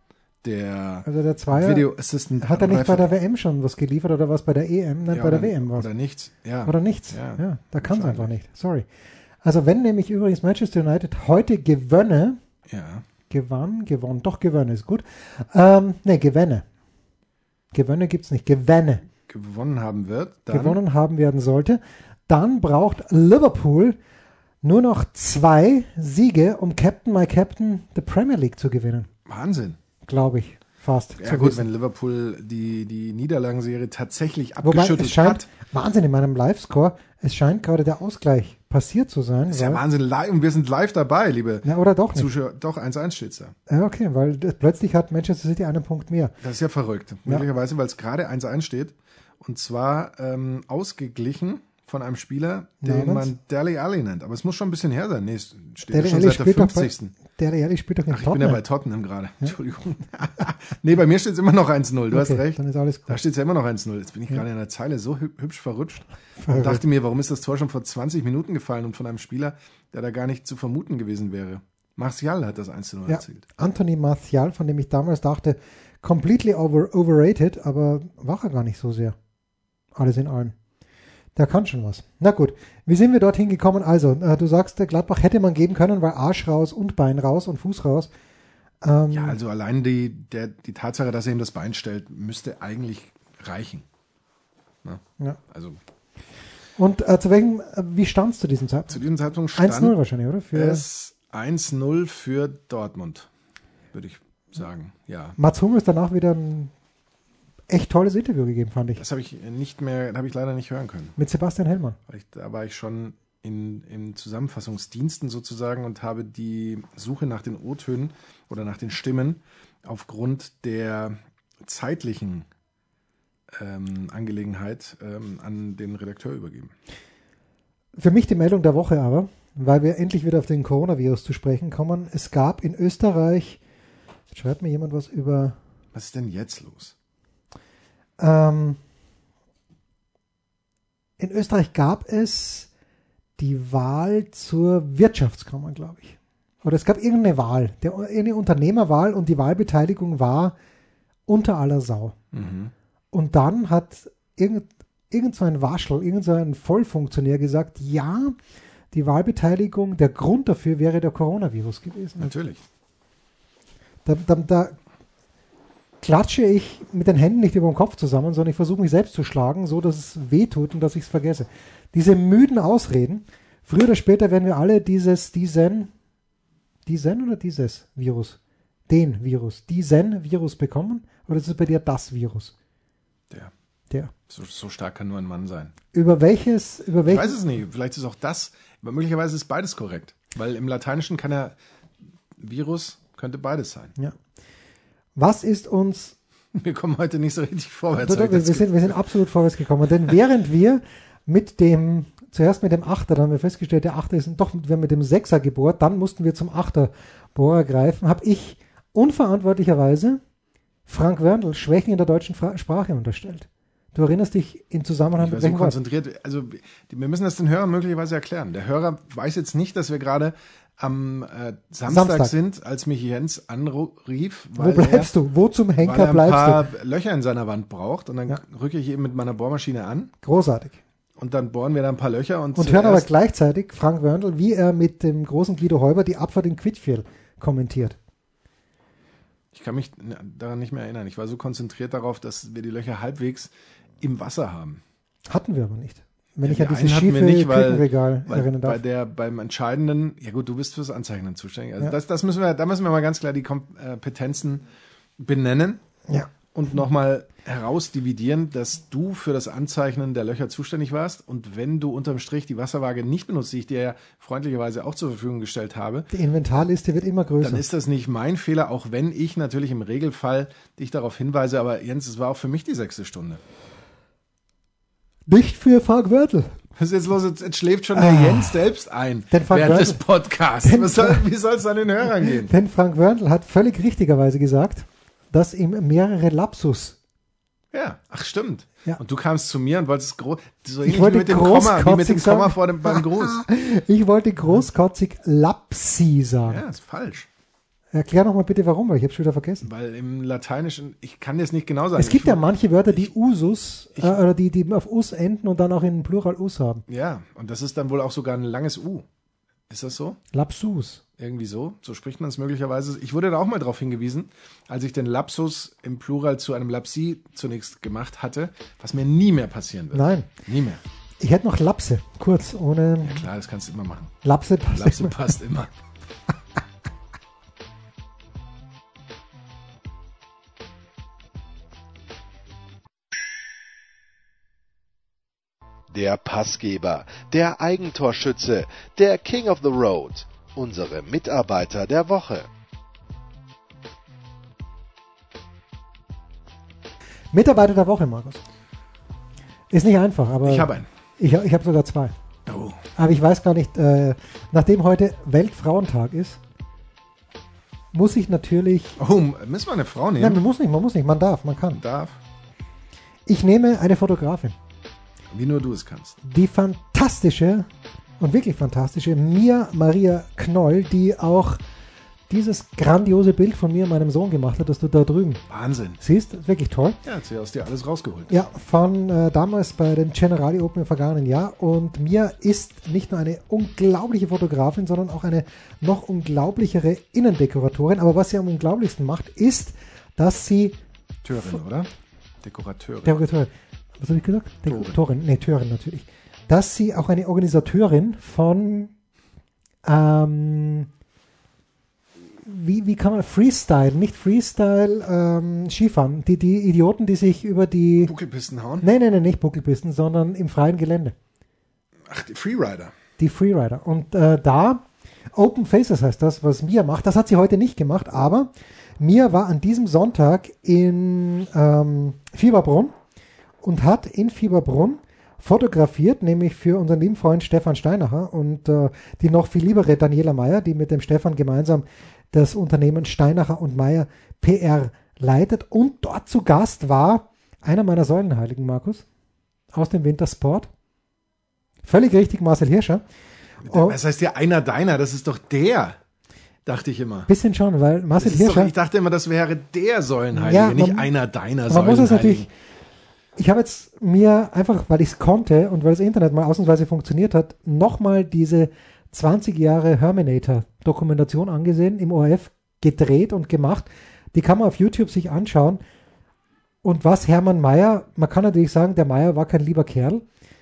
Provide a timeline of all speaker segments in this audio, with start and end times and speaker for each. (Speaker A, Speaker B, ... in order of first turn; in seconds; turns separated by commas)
Speaker A: 0.4-3.1, Speaker B: 1.1-1.9, Speaker B: 2.4-5.9, Speaker A: 5.1-8.3, Speaker B: 6.6-8.8, Speaker B: 9.4-12.4, Speaker A: 12.7-13.1, Speaker B: 13.3-16.6, Speaker B: 17.7-19.0, Speaker A: 19.2-20.8, Speaker B: 20.5-24.0, Speaker B: 24.6-29.1, Speaker A: 29.2-29.8, Speaker B: 30.1-31.6, Speaker A: 31.2-35.5, Speaker B: 34.6-39.8, Speaker A: 39.5-43.5, Speaker B: 41.6-42.3, Speaker B: 43.7-46.3, Speaker A: 46.4-57.1, Speaker B: 52.8-53.3, Speaker B: 55.9-58.6, Speaker A: 58.1-73.5, Speaker B: 62.1-63.2, Speaker B: 66.4-66.8, Speaker B: 73.1-79.2, Speaker B: 79.9-80.5, Speaker B: 81.3-88.1, Speaker B: 88.8-89.4, Speaker A: 89.1-93.8, Speaker A: 94.8-95.8, Speaker B: 96.8-99.0, Speaker A: 98.9-100.0, Speaker B: 99.5-100.8, Speaker A: 100.5-103.3, Speaker A: 103.9-105.4, Speaker B: 105.4-106.7, Speaker B: 107.7-109.0, Speaker A: 109.0-111.2, Speaker B: 111.2-112.0, Speaker A: 112.1-122.5, Speaker A: 123.5-126.7, Speaker B: 128.0-133.6, Speaker B: 134.3-135.6, Speaker A: 135.9-136.9, Speaker B: 138.2-138.8, Speaker B: 141.2-142.7, Speaker B: 143.4-150.5, Speaker B: 151.3-152.2, Speaker A: 152.3-152.7, Speaker B: 153.1-158.3, Speaker B: 158.9-162.3, Speaker A: 162.2-162.6, Speaker B: 164.0-164.8, Speaker B: 166.0-175.9, Speaker B: 176.8-178.4, Speaker B: 178.9-182.5, Speaker A: 184.3-185.7, Speaker B: 185.9-187.3, Speaker A: 187.1-191.6, Speaker A: 192.4-193.9, Speaker B: 195.2-196.1, Speaker A: 196.5-199.1, Speaker B: 198.0-210.2, Speaker B: 210.9-215.8, Speaker A: 215.2-225.1, Speaker B: 221.8-222.3, Speaker B: 224.6-226.6, Speaker A: 225.8-230.1, Speaker B: 230.2-230.8, Speaker A: 231.2-233.1, Speaker B: 232.5-238.0, Speaker A: 239.5-244.8, Speaker B: 245.3-248.8, Speaker A: 246.4-254.6, Speaker A: 255.2-255.8, Speaker A: 256.5-266.1, Speaker B: 266.1-267.6, Speaker A: 267.4-273.4, Speaker B: 275.3-276.6, Speaker A: 276.8-282.5, Speaker B: 277.9-278.6, Speaker B: 279.3-280.0, Speaker B: 280.6-281.2, Speaker B: 282.2-287.0, Speaker A: 287.7-293.4, Speaker B: 290.8-296.6, Speaker A: 296.4-297.3, Speaker B: 297.9-299.6, Speaker A: 299.6-302.4, Speaker B: 302.0-306.8, Speaker A: 303.9-304.2, Speaker A: 306.9-309.1, Speaker A: 309.7-310.2, Speaker B: 310.3-311.0, Speaker A: 311.2-320.8, Speaker B: 319.9-320.3, Speaker B: 321.2-323.2, Speaker A: 323.0-324.1, Speaker B: 324.2-325.2, Speaker A: 324.7-325.7, Speaker C: 335.9-342.5, Speaker B: 347.3-348.4, Speaker B: 349.7-352.1, Speaker A: 350.4-350.9, Speaker A: 352.4-352.8, Speaker B: 352.9-356.4, Speaker B: 357.9-359.0, Speaker A: 359.0-360.4, Speaker B: 360.2-361.8, Speaker A: 361.8-362.2, Speaker B: 363.2-364.5, Speaker A: 365.3-366.2, Speaker B: 366.2-367.7, Speaker B: 368.2-371.6, Speaker B: 372.3-375.4, Speaker A: 375.5-376.0, Speaker B: 376.0-377.0, Speaker A: 377.0-378.3, Speaker B: 378.3-390.8, Speaker A: 391.2-391.9, Speaker A: 392.4-393.2, Speaker B: 393.0-398.9, Speaker A: 394.6-395.0, Speaker B: 399.8-400.9, Speaker B: 402.4-408.1, Speaker A: 408.0-408.9, Speaker B: 408.8-411.1, Speaker A: 412.1-412.9, Speaker B: 413.2-422.9, Speaker B: 423.6-439.0, Speaker B: 439.7-440.7, Speaker B: 441.8-443.0, Speaker A: 443.6-446.0, Speaker B: 443.6-443.9, Speaker A: 446.6-447.3, Speaker B: 447.3-448.7, Speaker A: 448.2-452.5, Speaker B: 450.3-451.1, Speaker B: 451.7-452.5, Speaker B: 453.4-465.8, Speaker B: 466.8-470.2